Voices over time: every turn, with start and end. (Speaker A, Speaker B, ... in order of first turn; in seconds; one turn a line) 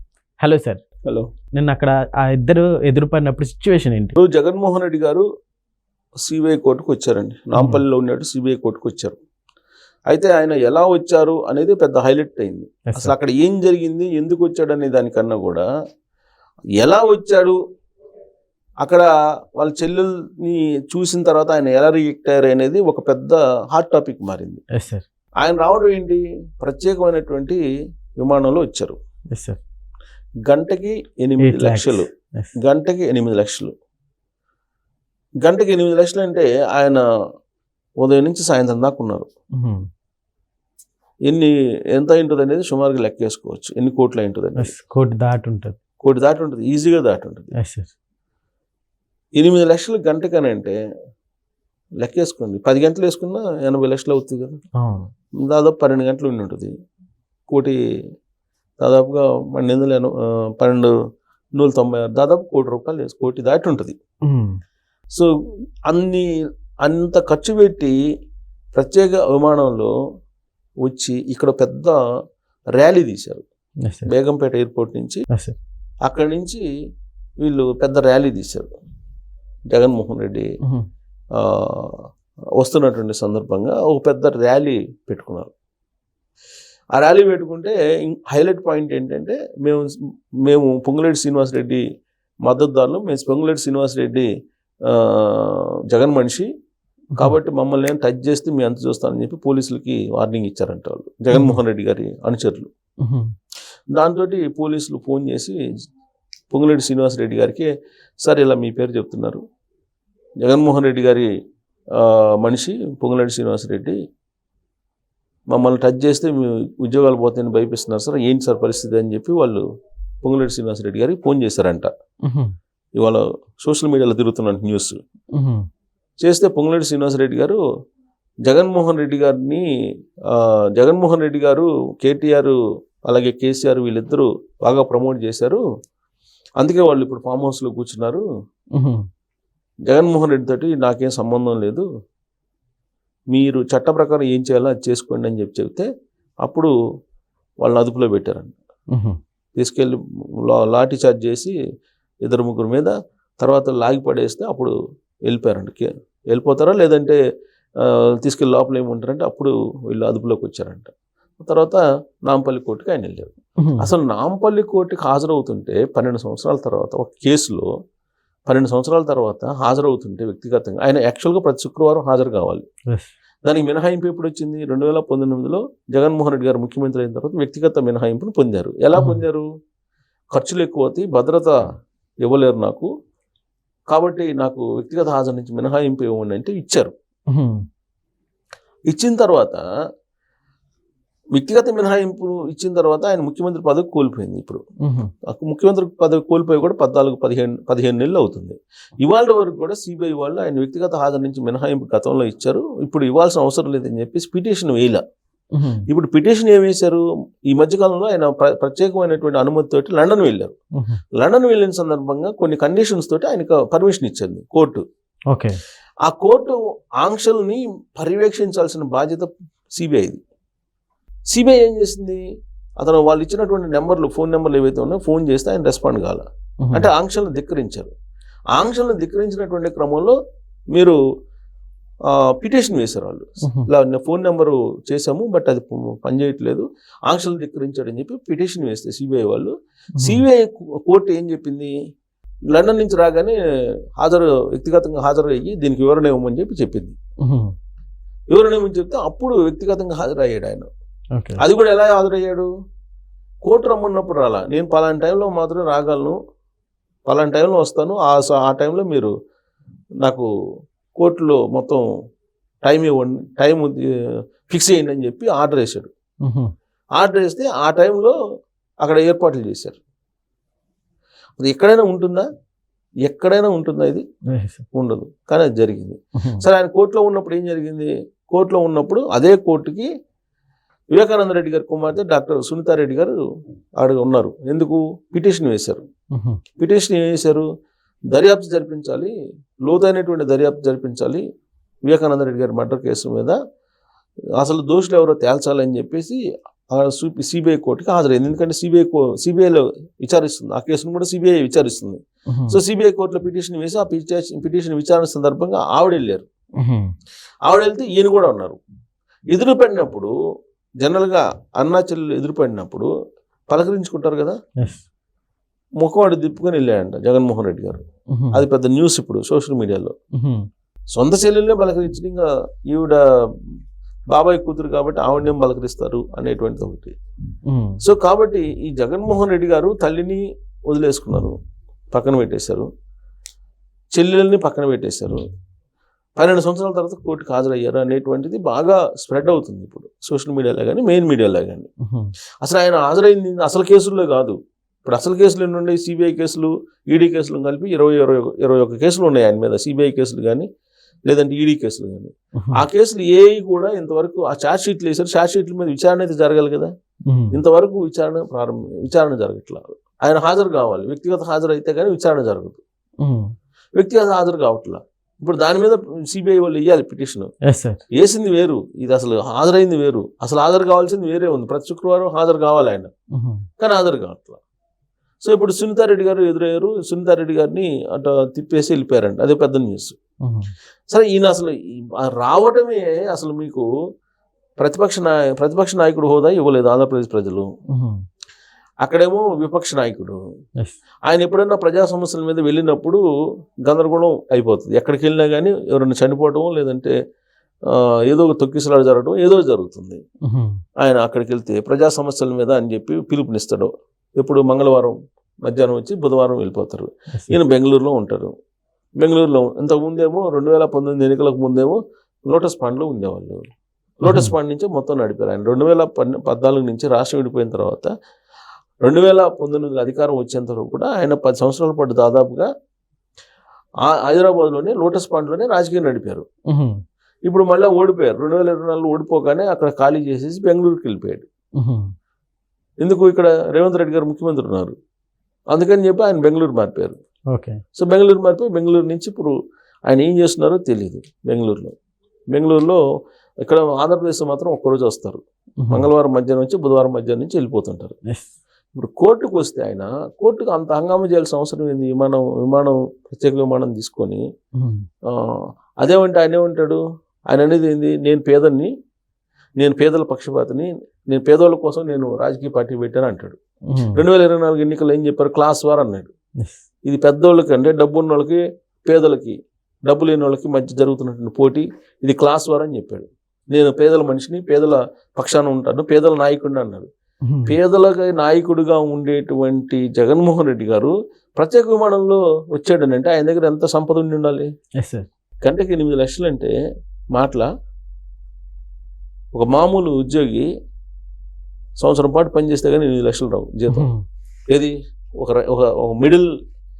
Speaker A: 0.4-0.8
Speaker B: 1.1-1.3
Speaker A: 1.5-4.1
Speaker B: 4.2-5.2
Speaker B: 6.2-9.2
Speaker A: 7.5-7.8
Speaker B: 10.1-15.7
Speaker A: 12.9-13.1
Speaker B: 16.8-17.6
Speaker B: 18.8-24.6
Speaker A: 24.7-25.0
Speaker B: 25.4-27.6
Speaker B: 28.2-28.9
Speaker A: 29.3-29.6
Speaker B: 30.4-32.1
Speaker A: 31.4-32.5
Speaker B: 32.6-33.7
Speaker B: 35.4-37.0
Speaker B: 38.0-39.3
Speaker A: 39.6-39.8
Speaker B: 41.2-44.7
Speaker A: 44.6-45.8
Speaker B: 46.0-47.5
Speaker A: 47.6-47.9
Speaker B: 49.4-50.8
Speaker B: 52.0-54.6
Speaker A: 54.8-55.1
Speaker B: 55.4-56.7
Speaker B: 57.5-57.8
Speaker B: 58.8-60.9
Speaker B: 61.5-64.0
Speaker A: 64.2-64.6
Speaker B: 65.9-66.2
Speaker B: 66.8-67.9
Speaker B: 68.7-69.9
Speaker B: 70.8-72.0
Speaker B: 72.7-73.4
Speaker A: 73.8-74.1
Speaker B: 74.1-75.3
Speaker B: 76.0-76.6
Speaker B: 77.4-78.7
Speaker B: 79.7-80.5
Speaker B: 81.3-82.0
Speaker B: 82.6-85.5
Speaker B: 86.9-89.9
Speaker B: 90.4-91.8
Speaker B: 92.4-94.3
Speaker B: 94.8-96.5
Speaker B: 97.2-102.7
Speaker A: 101.3-101.6
Speaker A: 103.0-103.3
Speaker B: 103.9-105.6
Speaker B: 106.5-107.7
Speaker B: 108.2-109.4
Speaker B: 110.4-111.3
Speaker B: 111.9-114.0
Speaker B: 115.5-119.6
Speaker B: 120.2-121.9
Speaker A: 122.2-122.5
Speaker B: 123.0-125.0
Speaker A: 125.3-125.7
Speaker B: 126.2-127.6
Speaker B: 128.4-129.6
Speaker B: 130.3-132.5
Speaker B: 133.1-135.6
Speaker B: 136.6-138.2
Speaker A: 138.7-139.0
Speaker B: 139.9-141.8
Speaker B: 143.3-145.9
Speaker B: 146.4-146.7
Speaker B: 147.6-148.6
Speaker B: 149.6-151.5
Speaker B: 152.2-154.7
Speaker B: 155.3-157.2
Speaker B: 157.8-167.7
Speaker A: 163.6-163.9
Speaker B: 168.5-172.7
Speaker B: 173.4-179.4
Speaker A: 178.9-179.2
Speaker B: 180.3-181.5
Speaker B: 182.2-182.9
Speaker B: 183.9-186.9
Speaker A: 187.3-187.6
Speaker B: 188.9-189.6
Speaker B: 191.3-194.6
Speaker A: 194.8-195.1
Speaker B: 195.2-205.0
Speaker A: 205.5-205.8
Speaker B: 205.9-210.5
Speaker B: 211.1-214.8
Speaker A: 215.3-215.6
Speaker B: 216.0-220.2
Speaker B: 221.3-222.2
Speaker B: 222.8-227.9
Speaker A: 226.6-226.9
Speaker B: 228.5-230.1
Speaker B: 232.1-241.7
Speaker A: 239.9-240.2
Speaker B: 242.5-243.3
Speaker B: 244.0-246.9
Speaker A: 247.2-247.5
Speaker B: 248.3-250.7
Speaker A: 251.1-251.4
Speaker B: 251.4-252.5
Speaker B: 253.4-256.1
Speaker B: 257.1-259.1
Speaker B: 260.9-261.8
Speaker B: 262.6-263.8
Speaker B: 264.5-265.9
Speaker A: 266.2-266.5
Speaker B: 266.9-268.1
Speaker B: 268.8-269.8
Speaker B: 271.4-272.2
Speaker B: 273.0-274.0
Speaker A: 274.3-274.6
Speaker B: 274.7-279.9
Speaker A: 276.2-276.4
Speaker B: 280.9-283.1
Speaker B: 283.8-285.8
Speaker A: 286.1-286.4
Speaker B: 286.6-287.4
Speaker B: 288.1-289.1
Speaker B: 289.6-291.2
Speaker B: 291.9-293.4
Speaker B: 294.4-296.2
Speaker B: 296.7-306.3
Speaker A: 302.3-302.6
Speaker A: 306.6-306.9
Speaker B: 307.4-308.6
Speaker B: 309.3-310.1
Speaker B: 310.8-312.9
Speaker B: 313.5-314.4
Speaker B: 315.8-319.9
Speaker A: 318.1-318.4
Speaker A: 320.1-320.5
Speaker B: 320.9-323.0
Speaker B: 324.1-326.9
Speaker A: 327.4-327.8
Speaker B: 327.8-331.4
Speaker B: 331.9-332.7
Speaker B: 333.9-335.2
Speaker B: 336.2-341.7
Speaker A: 341.8-342.1
Speaker B: 342.4-350.5
Speaker B: 351.1-356.7
Speaker A: 352.4-352.6
Speaker A: 357.1-357.4
Speaker B: 357.3-362.6
Speaker A: 363.0-363.3
Speaker B: 363.7-367.3
Speaker A: 367.4-367.8
Speaker B: 367.9-372.9
Speaker A: 373.1-373.4
Speaker B: 373.6-374.4
Speaker B: 375.2-380.0
Speaker A: 380.2-380.5
Speaker B: 380.9-383.6
Speaker B: 384.6-387.5
Speaker A: 387.7-388.0
Speaker B: 388.8-390.2
Speaker B: 391.1-393.0
Speaker B: 393.6-396.9
Speaker B: 397.6-400.0
Speaker A: 400.2-400.6
Speaker B: 400.8-408.3
Speaker B: 409.0-413.4
Speaker B: 414.0-417.9
Speaker A: 414.0-414.3
Speaker B: 418.8-422.5
Speaker B: 423.8-426.2
Speaker A: 426.5-426.8
Speaker B: 427.2-431.2
Speaker A: 431.6-431.9
Speaker B: 432.8-434.7
Speaker B: 435.5-437.0
Speaker A: 437.3-437.6
Speaker B: 437.7-439.3
Speaker B: 439.9-441.7
Speaker B: 442.3-442.8
Speaker B: 443.4-447.9
Speaker A: 445.6-445.9
Speaker B: 448.7-454.2
Speaker A: 454.6-454.9
Speaker B: 455.1-458.7
Speaker B: 459.6-463.4
Speaker A: 463.7-464.0
Speaker B: 463.9-466.1
Speaker B: 466.8-469.3
Speaker B: 469.9-476.9
Speaker A: 477.2-477.6
Speaker B: 477.4-484.5
Speaker A: 484.8-485.1
Speaker B: 485.4-486.5
Speaker B: 487.1-487.5
Speaker B: 489.3-490.5
Speaker B: 491.8-493.9
Speaker A: 493.7-494.0
Speaker B: 494.5-496.3